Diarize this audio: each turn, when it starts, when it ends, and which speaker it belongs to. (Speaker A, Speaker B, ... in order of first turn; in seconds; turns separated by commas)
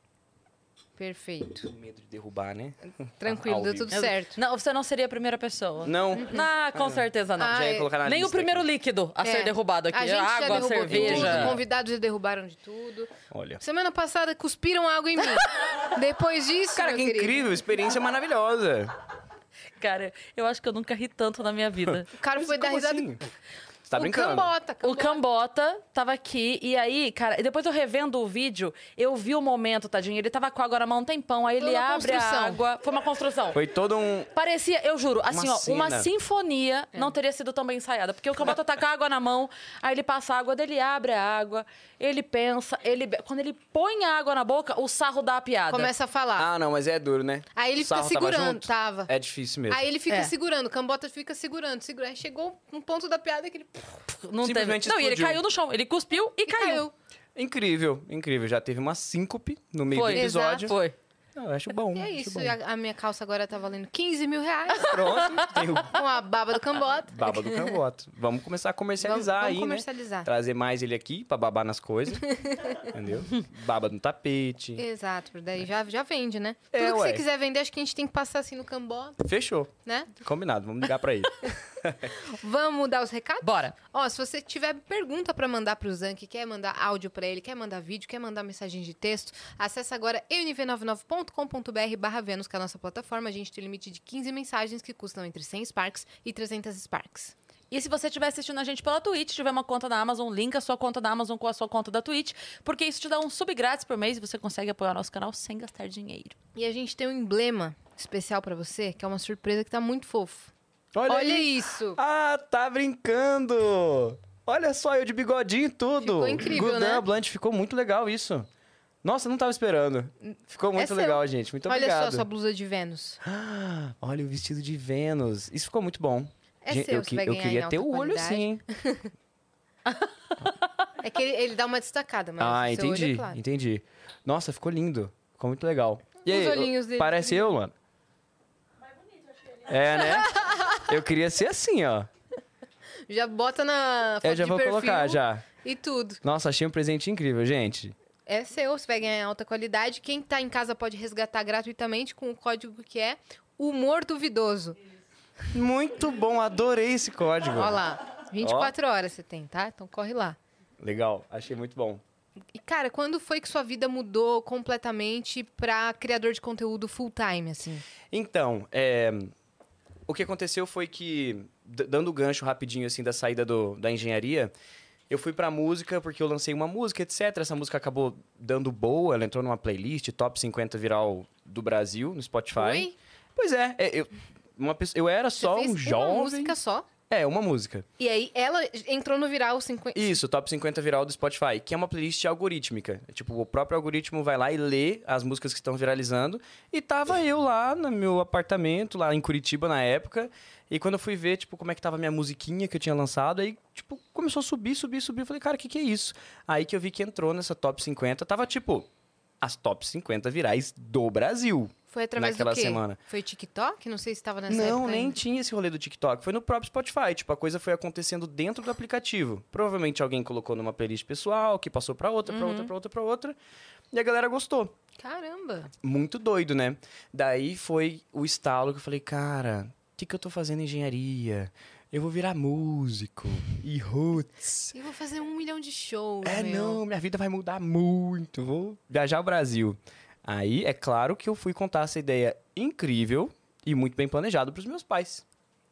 Speaker A: 1.0-1.7, Speaker B: 1.7-4.0, Speaker A: 3.2-4.4, Speaker C: 3.9-11.6, Speaker B: 5.8-8.7, Speaker A: 7.4-7.9, Speaker A: 9.2-13.1, Speaker B: 10.8-11.6, Speaker B: 13.3-13.6, Speaker A: 13.6-17.4, Speaker B: 16.7-18.9, Speaker C: 19.8-22.1, Speaker B: 21.9-23.2, Speaker A: 22.1-23.1, Speaker B: 23.9-24.5, Speaker A: 23.9-25.2, Speaker C: 24.8-33.6, Speaker A: 31.6-32.6, Speaker B: 33.5-34.3, Speaker C: 34.3-45.9, Speaker B: 35.3-36.1, Speaker A: 45.7-46.5, Speaker B: 46.4-49.8, Speaker A: 47.5-49.1, Speaker A: 49.7-54.0, Speaker C: 54.2-56.9, Speaker B: 54.4-55.4, Speaker A: 56.5-56.9, Speaker B: 57.3-60.8, Speaker C: 59.9-60.9, Speaker A: 60.1-60.7, Speaker B: 61.3-62.5, Speaker A: 61.9-65.0, Speaker B: 64.8-66.0, Speaker A: 65.8-67.8, Speaker B: 67.1-72.2, Speaker A: 69.0-70.3, Speaker A: 72.3-72.8, Speaker B: 72.8-74.8, Speaker A: 74.8-79.2, Speaker B: 76.7-77.2, Speaker B: 79.2-82.1, Speaker A: 79.8-80.1, Speaker A: 82.2-97.3, Speaker C: 83.4-83.7, Speaker C: 97.7-106.3, Speaker A: 106.5-110.5, Speaker B: 110.9-118.5, Speaker A: 111.1-112.0, Speaker A: 116.0-117.0, Speaker B: 119.0-122.2, Speaker A: 120.8-123.2, Speaker B: 123.2-128.6, Speaker A: 126.6-129.1, Speaker A: 131.0-133.4, Speaker B: 132.4-137.7, Speaker A: 136.2-137.4, Speaker B: 139.7-142.1, Speaker A: 140.1-140.8, Speaker A: 143.1-146.2, Speaker B: 144.2-145.4, Speaker B: 146.2-147.9, Speaker A: 148.2-154.8, Speaker B: 155.5-157.8, Speaker A: 157.5-160.4, Speaker B: 158.4-158.7, Speaker B: 160.8-162.0, Speaker A: 162.5-167.8, Speaker B: 168.1-169.3, Speaker B: 170.1-174.5, Speaker B: 175.1-186.6, Speaker A: 182.6-182.9, Speaker A: 185.4-186.9, Speaker B: 187.1-187.8, Speaker A: 188.0-190.2, Speaker B: 189.9-208.9, Speaker B: 209.4-213.0, Speaker A: 211.9-215.2, Speaker B: 214.5-223.3, Speaker A: 222.3-222.7, Speaker B: 223.9-224.7, Speaker A: 225.0-225.7, Speaker B: 225.8-234.7, Speaker A: 234.7-236.8, Speaker B: 236.2-245.2